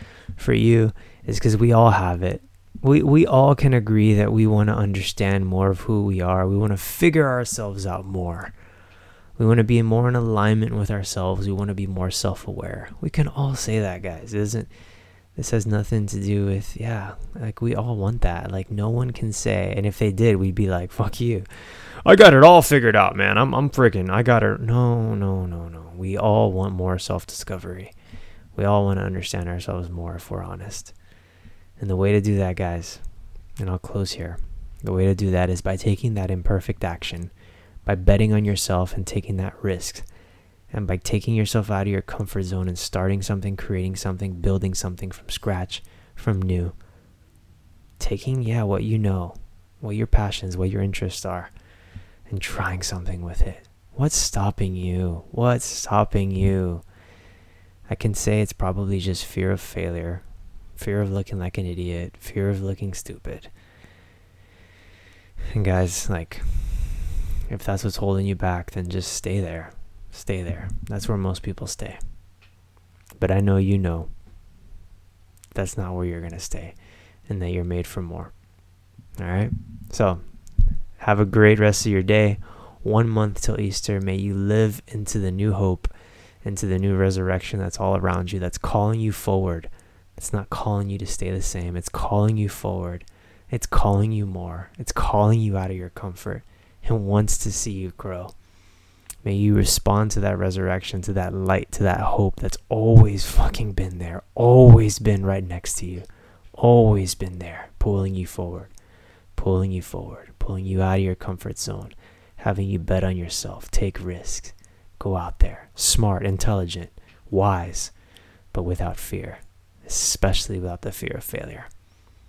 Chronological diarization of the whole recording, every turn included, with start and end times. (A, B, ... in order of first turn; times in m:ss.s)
0:00.4-0:08.6 A
0:09.4-0:14.7 A
0:15.4-0:27.9 A
0:28.6-0:31.0 A
0:31.8-0:33.0 A
0:33.6-0:37.3 A
0:37.8-0:40.1 A
0:40.7-0:46.8 A
0:48.0-0:51.5 A
0:52.3-0:56.8 A
0:57.9-1:00.2 A
1:00.8-1:03.5 A
1:05.5-1:12.0 A
1:13.2-1:14.1 A
1:15.6-1:16.8 A
1:17.3-1:18.3 A
1:19.2-1:20.2 A
1:21.0-1:25.9 A
1:26.4-1:38.4 A
1:39.2-1:48.7 A
1:49.4-1:57.9 A
1:58.5-2:01.7 A